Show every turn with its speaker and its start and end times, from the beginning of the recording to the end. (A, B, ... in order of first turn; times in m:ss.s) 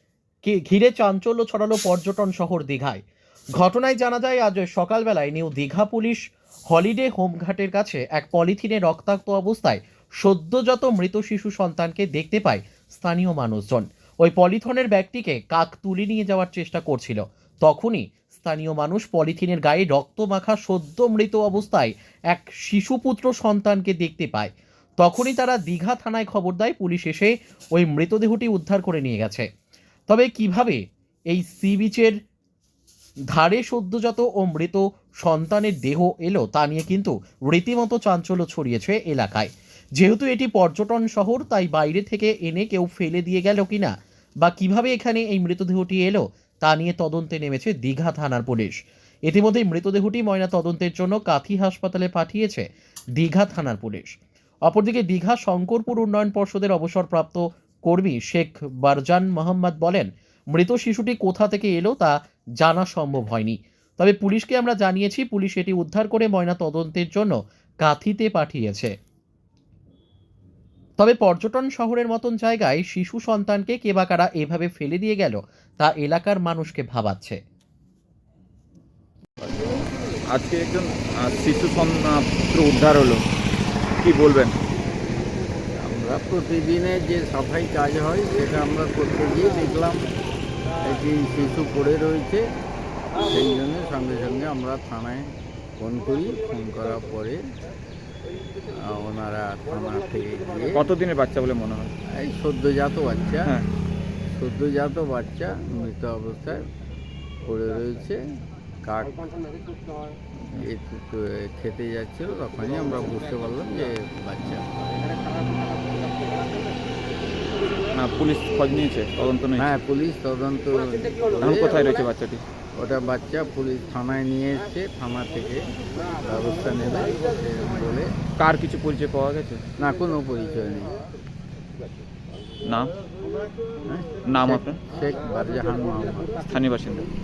0:00.4-0:03.0 A
0:03.6-0:29.4 A
0:30.1-0:32.2 A
0:33.3-0:48.8 A
0:49.3-0:52.6 A
0:53.2-0:54.1 A
0:54.6-1:08.9 A
1:11.0-1:17.4 A
1:19.4-1:19.8 B
1:20.3-1:23.2 C
1:24.0-1:24.5 C
1:25.8-1:30.1 B
1:30.8-1:32.4 B
1:33.2-1:35.2 B
1:35.8-1:37.4 B
1:38.7-1:40.9 B
1:40.7-1:41.9 C
1:42.1-1:43.6 B
1:44.3-1:46.6 B
1:47.4-1:48.2 B
1:48.8-1:49.2 B
1:50.5-1:55.0 B
1:57.9-1:59.8 C
1:59.6-2:01.8 B
2:01.4-2:02.4 C
2:02.7-2:05.7 B
2:06.2-2:08.1 B
2:08.4-2:09.6 C
2:09.8-2:11.0 B
2:12.6-2:12.9 C
2:13.8-2:16.4 B
2:14.2-2:14.8 C
2:16.4-2:17.1 C